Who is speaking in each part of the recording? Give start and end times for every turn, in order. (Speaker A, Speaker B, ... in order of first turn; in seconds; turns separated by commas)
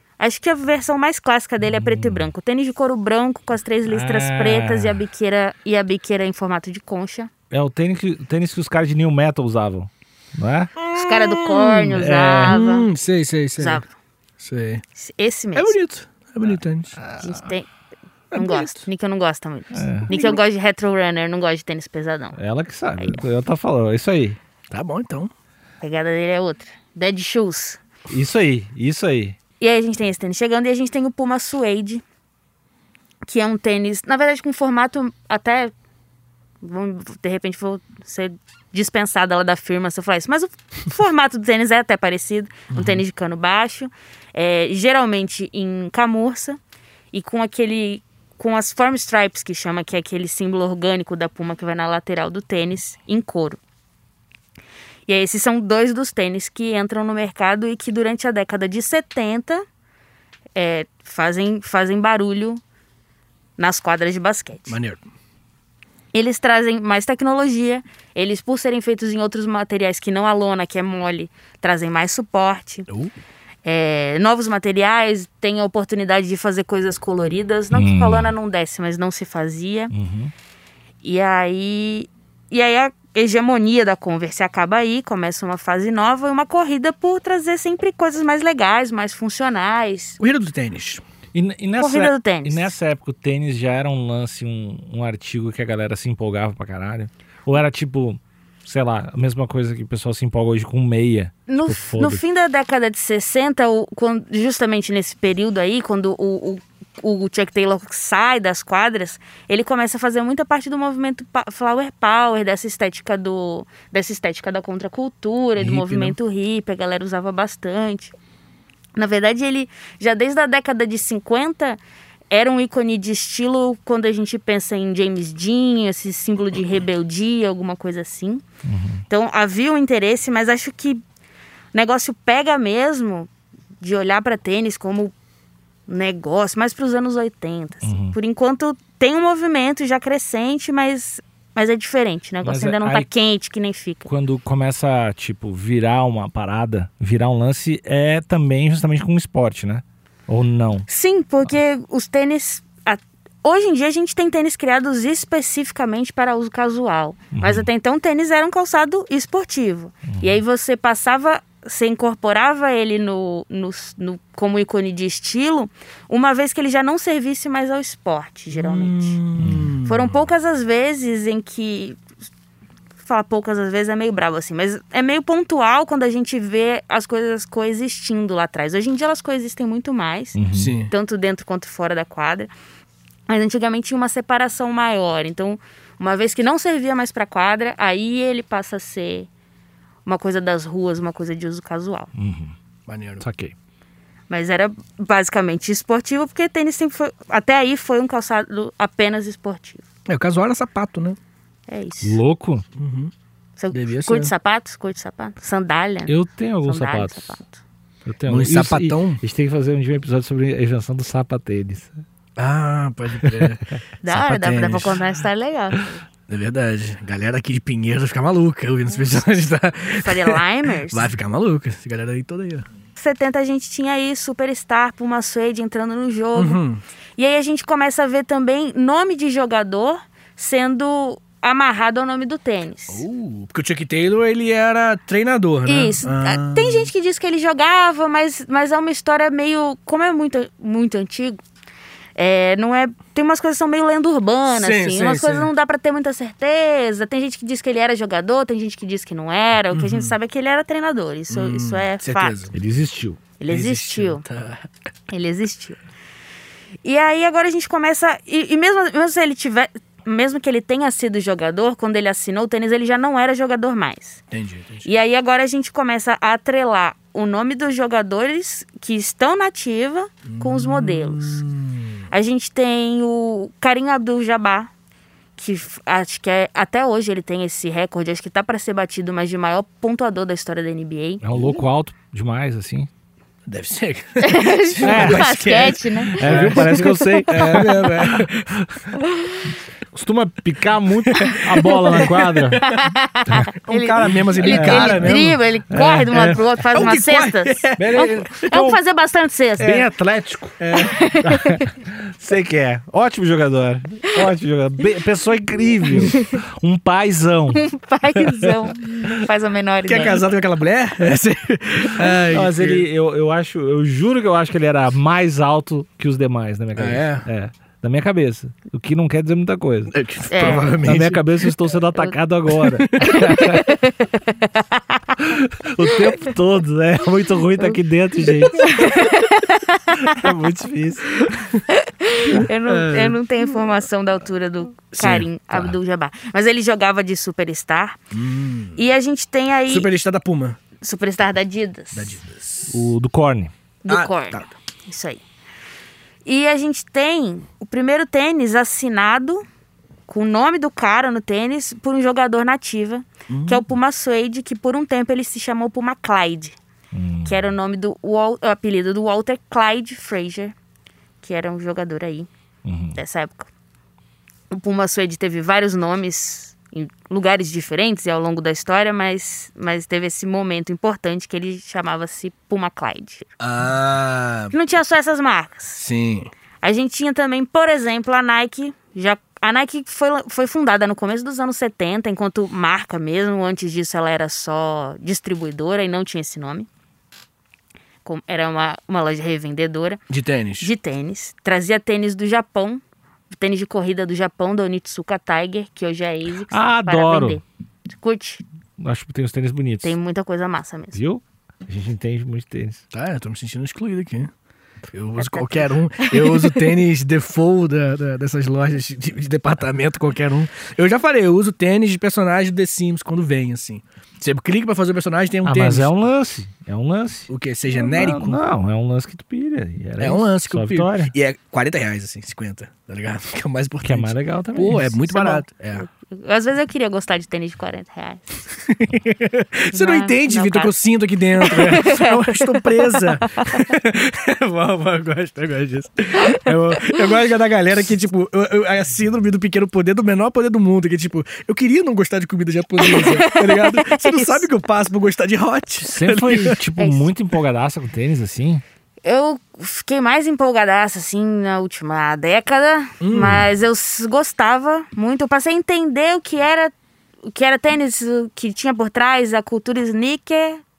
Speaker A: 0.2-7.3, Speaker B: 1.6-2.3, Speaker B: 3.9-5.0, Speaker B: 7.5-10.8, Speaker C: 10.8-11.9, Speaker A: 10.9-12.9, Speaker B: 11.9-12.6, Speaker C: 12.4-13.8, Speaker A: 13.6-13.9, Speaker C: 14.4-14.8, Speaker A: 14.9-15.8, Speaker C: 15.5-17.0, Speaker B: 17.0-17.5, Speaker A: 17.2-17.7, Speaker C: 18.3-18.9, Speaker A: 18.3-22.4, Speaker B: 19.7-20.1, Speaker C: 20.1-20.4, Speaker B: 22.4-24.4, Speaker C: 24.7-25.3, Speaker A: 25.8-27.8, Speaker B: 28.1-29.4, Speaker A: 29.6-32.0, Speaker A: 33.2-35.7, Speaker A: 36.6-46.6, Speaker C: 42.7-43.0, Speaker A: 47.1-53.6, Speaker A: 55.1-59.6, Speaker A: 60.5-62.6, Speaker A: 63.6-64.8, Speaker C: 64.7-65.0, Speaker A: 66.1-72.9, Speaker C: 72.9-73.1, Speaker A: 73.6-79.9, Speaker B: 77.7-78.3, Speaker B: 79.9-80.3, Speaker A: 81.0-90.2, Speaker C: 90.2-91.0, Speaker B: 91.3-102.2, Speaker A: 91.8-92.7, Speaker A: 101.5-118.1, Speaker B: 115.6-116.1, Speaker A: 119.0-121.8, Speaker A: 122.3-128.4, Speaker B: 128.6-129.0, Speaker A: 129.1-131.0, Speaker A: 131.7-133.3, Speaker A: 133.8-135.1, Speaker A: 135.9-144.1, Speaker B: 137.8-138.2, Speaker B: 142.4-143.1, Speaker B: 144.1-150.8, Speaker A: 150.9-169.2, Speaker B: 157.3-157.7, Speaker B: 160.1-160.4, Speaker C: 168.5-170.1, Speaker B: 169.4-169.7, Speaker A: 169.8-172.0, Speaker A: 173.0-182.5, Speaker B: 180.3-180.7, Speaker C: 180.5-180.9, Speaker A: 183.3-189.3, Speaker A: 190.0-192.1, Speaker B: 192.1-192.5, Speaker C: 192.9-193.2, Speaker B: 193.2-193.5, Speaker A: 194.3-199.8, Speaker C: 200.1-201.2, Speaker A: 201.7-202.2, Speaker B: 202.0-202.6, Speaker C: 202.8-203.1, Speaker A: 203.6-206.1, Speaker C: 203.7-204.3, Speaker B: 206.1-207.4, Speaker A: 206.6-207.6, Speaker B: 208.1-211.9, Speaker C: 208.3-209.2, Speaker C: 212.4-215.0, Speaker A: 214.0-216.0, Speaker C: 216.3-222.7, Speaker A: 220.0-221.1, Speaker A: 222.9-226.6, Speaker C: 226.3-226.8, Speaker A: 227.2-233.0, Speaker C: 232.9-236.9, Speaker A: 235.7-241.4, Speaker A: 242.2-252.4, Speaker C: 244.5-245.5, Speaker C: 249.7-250.1, Speaker C: 251.3-252.5, Speaker B: 252.5-253.2, Speaker A: 253.4-254.2, Speaker C: 253.5-254.7, Speaker A: 255.1-255.8, Speaker A: 256.8-264.2, Speaker C: 264.3-264.9, Speaker A: 264.8-271.4, Speaker C: 270.2-272.0, Speaker A: 272.1-274.7, Speaker A: 275.4-281.2, Speaker B: 281.2-282.9, Speaker C: 283.5-288.6, Speaker A: 284.2-287.6, Speaker B: 284.8-285.3, Speaker B: 286.1-288.3, Speaker A: 288.9-289.4, Speaker B: 289.9-292.6, Speaker C: 291.1-292.8, Speaker A: 291.2-292.0, Speaker A: 292.6-299.9, Speaker C: 293.6-295.4, Speaker B: 294.4-296.5, Speaker C: 296.1-298.2, Speaker B: 297.8-298.8, Speaker B: 299.6-300.6, Speaker C: 300.6-301.0, Speaker A: 300.7-301.7, Speaker B: 301.2-307.6, Speaker A: 305.9-306.4, Speaker A: 307.5-310.2, Speaker C: 309.9-312.9, Speaker B: 312.2-323.7, Speaker C: 316.8-317.2, Speaker C: 319.9-321.5, Speaker A: 320.3-320.8, Speaker C: 322.6-323.2, Speaker A: 323.0-325.2, Speaker B: 325.2-328.9, Speaker A: 328.5-330.2, Speaker B: 330.0-331.3, Speaker A: 331.7-338.0, Speaker C: 332.7-333.2, Speaker C: 334.9-335.2, Speaker B: 335.0-335.7, Speaker C: 338.1-338.8, Speaker A: 338.8-339.9, Speaker C: 339.7-340.6, Speaker A: 340.8-342.2, Speaker C: 341.9-342.9, Speaker B: 342.7-343.5, Speaker A: 343.8-345.2, Speaker C: 343.9-344.5, Speaker A: 346.2-349.4, Speaker A: 350.1-356.6, Speaker C: 353.3-353.6, Speaker B: 356.9-357.5, Speaker A: 357.2-360.5, Speaker A: 361.2-362.3, Speaker B: 362.6-363.0, Speaker A: 362.9-363.5, Speaker A: 364.5-373.3, Speaker C: 373.4-374.5, Speaker A: 374.5-375.8, Speaker C: 375.8-376.3, Speaker A: 376.6-386.7, Speaker A: 388.0-390.0, Speaker C: 390.1-390.7, Speaker A: 390.6-398.4, Speaker B: 396.5-397.4, Speaker B: 398.8-399.9, Speaker A: 399.8-401.0, Speaker B: 400.9-402.8, Speaker C: 402.9-404.3, Speaker C: 404.9-415.9, Speaker A: 405.2-406.6, Speaker B: 415.4-421.1, Speaker C: 417.3-418.4, Speaker C: 420.0-425.9, Speaker B: 423.8-425.0, Speaker A: 425.1-428.3, Speaker C: 428.7-446.6, Speaker A: 429.7-430.7, Speaker A: 431.4-433.6, Speaker A: 442.8-444.4, Speaker B: 445.8-448.6, Speaker A: 446.8-447.1, Speaker A: 449.0-456.7, Speaker C: 453.0-453.4, Speaker B: 453.2-453.4, Speaker A: 457.2-460.6